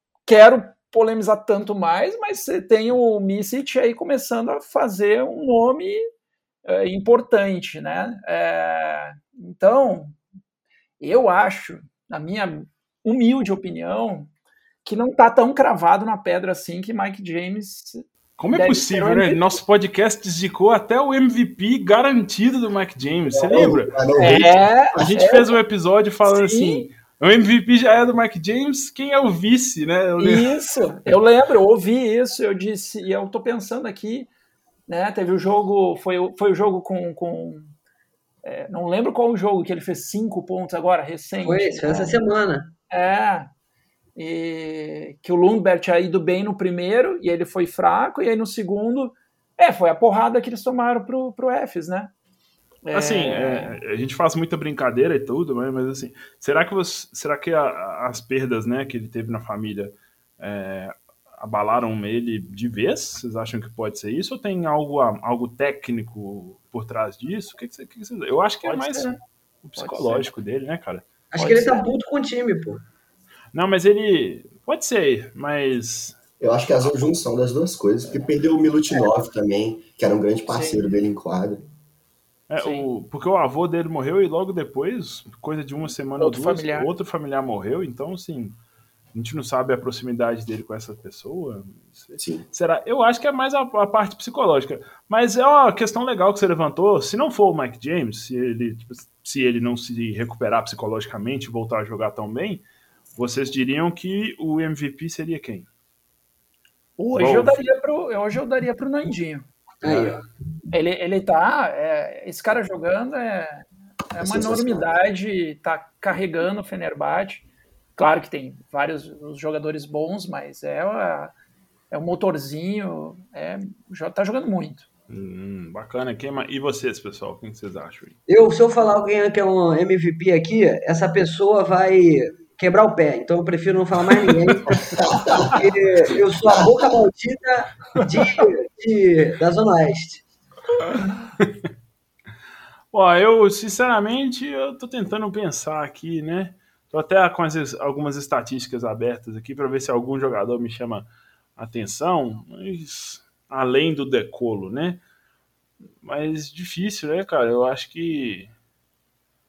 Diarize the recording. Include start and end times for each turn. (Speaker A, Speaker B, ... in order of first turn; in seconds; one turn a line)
Speaker A: 0.3-6.0
Speaker A: 6.7-10.2
Speaker A: 11.0-14.3
Speaker A: 14.8-18.0
Speaker B: 18.4-24.0
Speaker A: 18.5-19.6
Speaker C: 23.3-24.6
Speaker A: 24.2-25.5
Speaker B: 24.9-30.6
Speaker A: 26.2-26.9
Speaker A: 30.2-34.3
Speaker A: 34.9-37.7
Speaker A: 38.4-42.2
Speaker D: 41.4-42.7
Speaker A: 42.9-43.5
Speaker A: 44.2-52.1
Speaker A: 52.9-53.8
Speaker B: 52.9-71.1
Speaker A: 68.6-69.2
Speaker A: 69.8-70.3
Speaker D: 71.3-72.8
Speaker A: 71.4-71.9
Speaker B: 73.5-76.2
Speaker C: 76.4-81.6
Speaker A: 80.5-80.9
Speaker B: 82.5-88.6
Speaker A: 82.6-82.9
Speaker A: 86.2-86.9
Speaker B: 89.1-102.6
Speaker C: 92.2-92.4
Speaker B: 103.2-105.7
Speaker A: 107.0-109.5
Speaker B: 107.1-107.6
Speaker D: 109.8-110.2
Speaker B: 109.8-110.2
Speaker A: 110.7-121.3
Speaker C: 114.2-114.9
Speaker A: 121.9-124.9
Speaker B: 125.1-128.2
Speaker D: 128.3-140.2
Speaker B: 134.2-134.8
Speaker C: 135.0-135.6
Speaker B: 142.9-155.0
Speaker B: 156.0-158.5